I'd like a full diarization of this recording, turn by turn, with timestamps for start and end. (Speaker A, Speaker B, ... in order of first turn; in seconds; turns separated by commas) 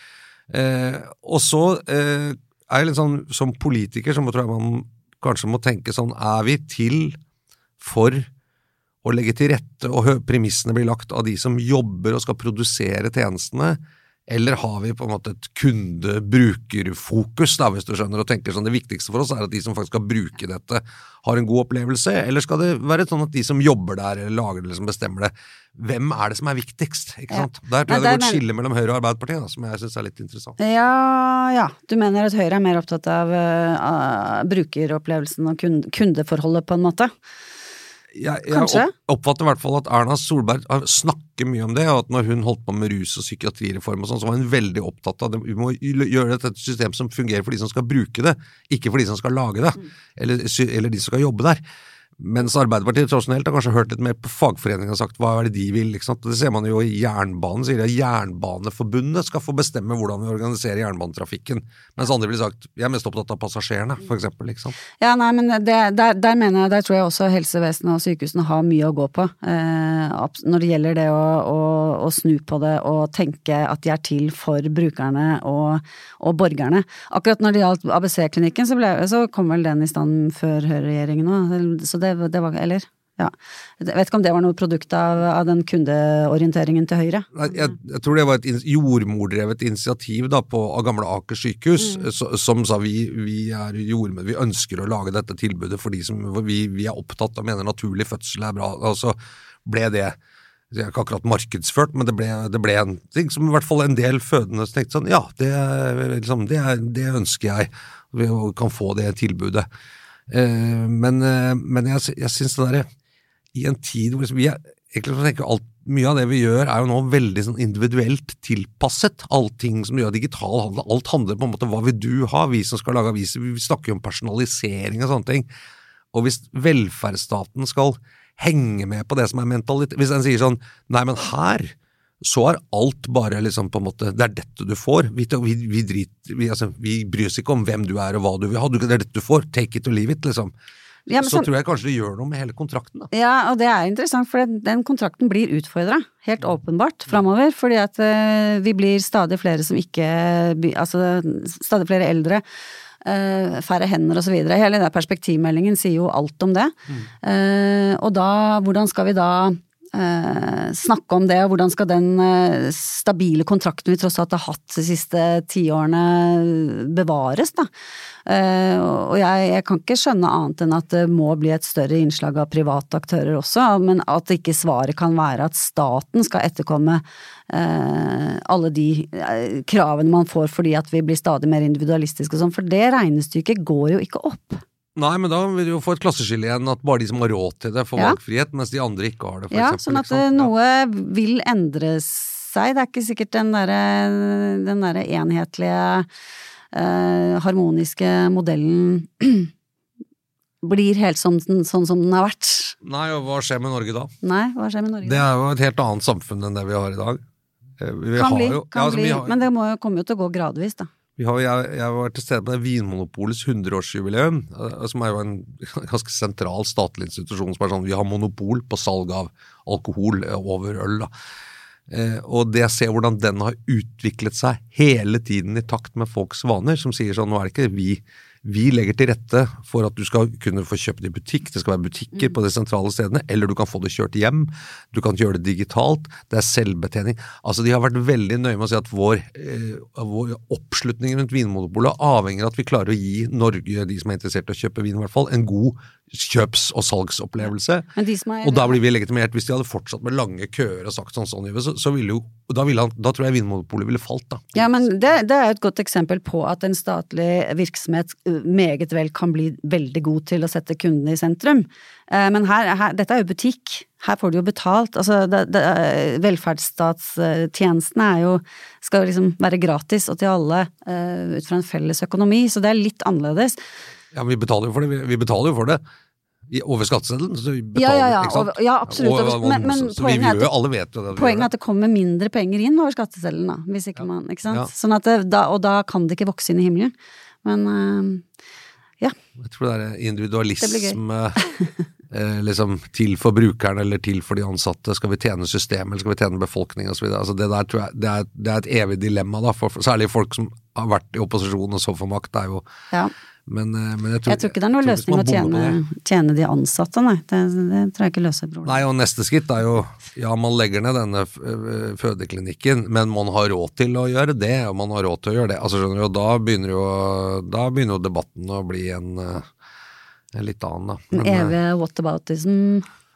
Speaker A: 0.5-7.2, Speaker A: 7.8-8.3, Speaker A: 9.0-30.6, Speaker B: 27.3-28.4, Speaker B: 30.6-37.1, Speaker A: 38.1-51.6, Speaker B: 38.5-38.9, Speaker A: 52.2-64.8, Speaker B: 65.0-87.3, Speaker A: 87.3-100.2, Speaker B: 91.8-92.1, Speaker A: 100.7-109.7, Speaker A: 110.3-112.9, Speaker A: 113.5-125.5, Speaker A: 126.1-140.5, Speaker B: 141.1-141.5, Speaker A: 141.2-143.1, Speaker B: 143.1-152.4, Speaker B: 153.0-167.7, Speaker B: 168.3-184.6, Speaker A: 185.0-190.5, Speaker B: 189.5-196.1, Speaker B: 196.7-199.5, Speaker B: 200.6-202.8, Speaker A: 202.8-204.1, Speaker B: 204.2-205.3, Speaker A: 205.0-207.2, Speaker A: 207.8-209.4, Speaker B: 208.2-210.9, Speaker A: 211.2-221.1, Speaker A: 221.9-247.9, Speaker B: 248.0-248.8, Speaker A: 248.4-254.8, Speaker B: 254.5-273.6, Speaker A: 274.1-275.8, Speaker A: 276.5-281.5, Speaker B: 277.8-280.5, Speaker B: 281.1-288.3, Speaker A: 289.4-291.4, Speaker B: 290.6-291.7, Speaker A: 292.1-302.6, Speaker A: 303.5-305.8, Speaker B: 304.3-308.9, Speaker A: 308.7-319.5, Speaker A: 320.3-321.6, Speaker B: 321.1-322.9